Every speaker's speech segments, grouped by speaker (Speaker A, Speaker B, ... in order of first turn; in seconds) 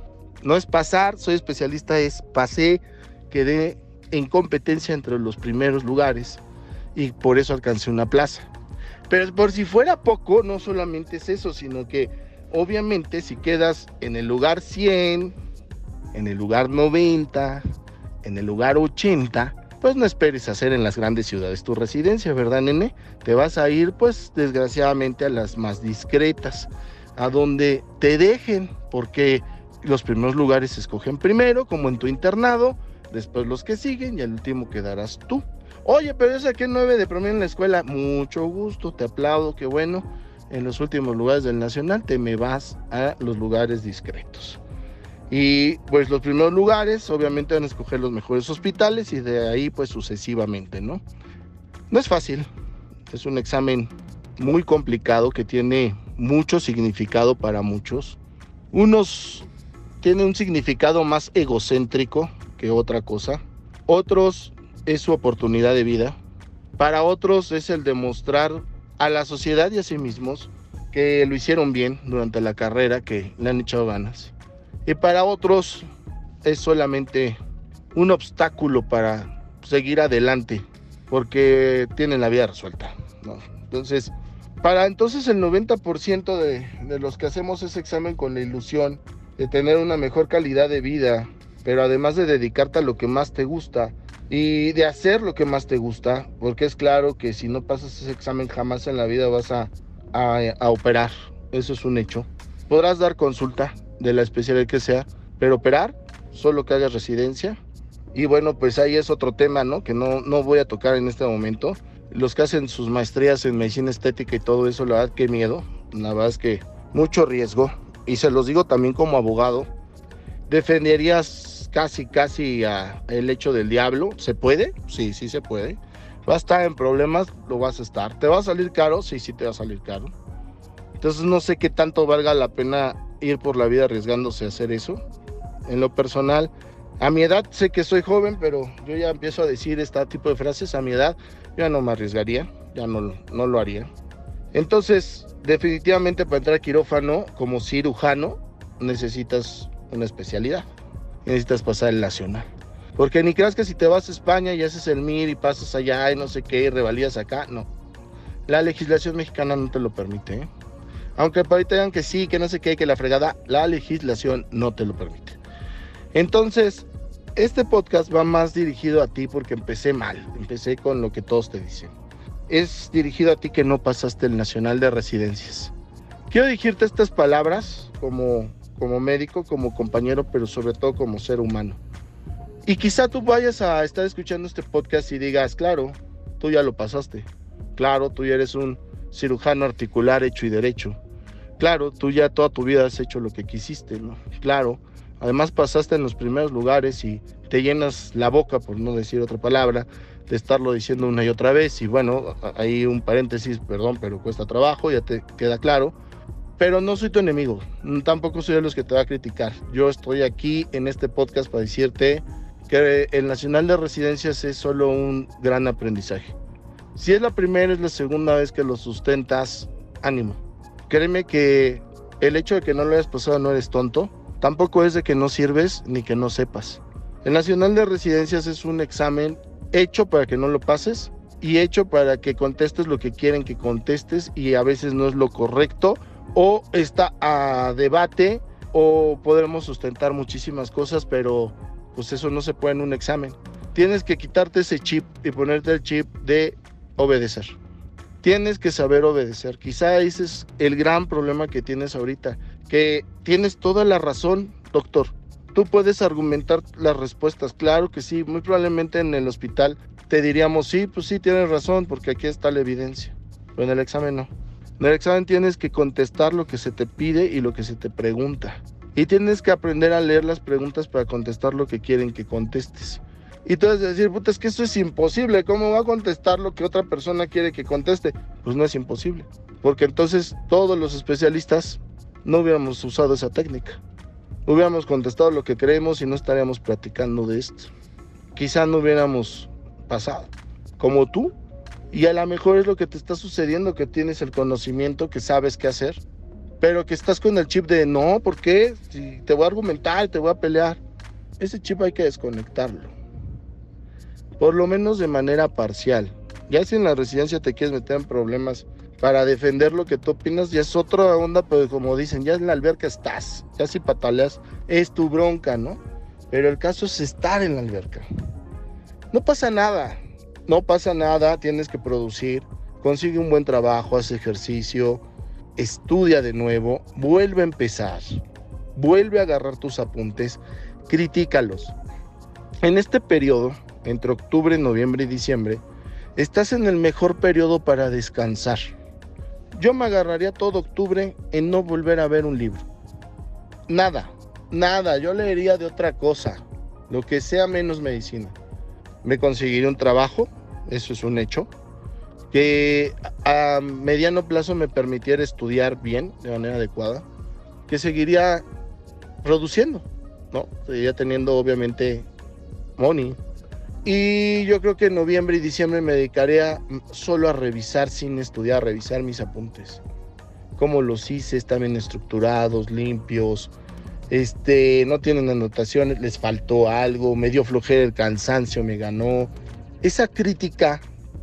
Speaker A: 0.4-6.4, 6.9-8.5, 9.1-15.3, 16.1-17.6, 18.2-44.6, 45.3-51.0, 51.9-52.5, 53.1-58.2, 58.7-59.5, 60.0-66.2, 66.8-74.3, 74.8-75.9, 76.4-77.4, 77.9-107.6, 108.1-119.7, 120.5-130.1, 131.0-135.0, 135.7-143.9, 144.5-150.7, 151.2-157.7, 158.5-160.5, 161.2-165.4, 166.1-171.9, 172.5-175.7, 176.3-181.8, 182.7-191.0, 191.6-205.9, 206.6-216.3, 216.9-247.6, 248.2-283.8, 284.4-287.7, 288.3-291.3, 291.9-296.0, 296.6-300.8, 301.4-302.9, 304.4-318.1, 319.1-325.0, 325.6-328.2, 328.7-331.8, 332.6-335.6, 336.1-338.7, 339.5-342.7, 343.7-348.4, 349.0-351.5, 352.3-357.1, 357.7-358.4, 359.2-362.1, 362.8-363.2, 363.8-369.8, 370.6-373.5, 374.1-380.8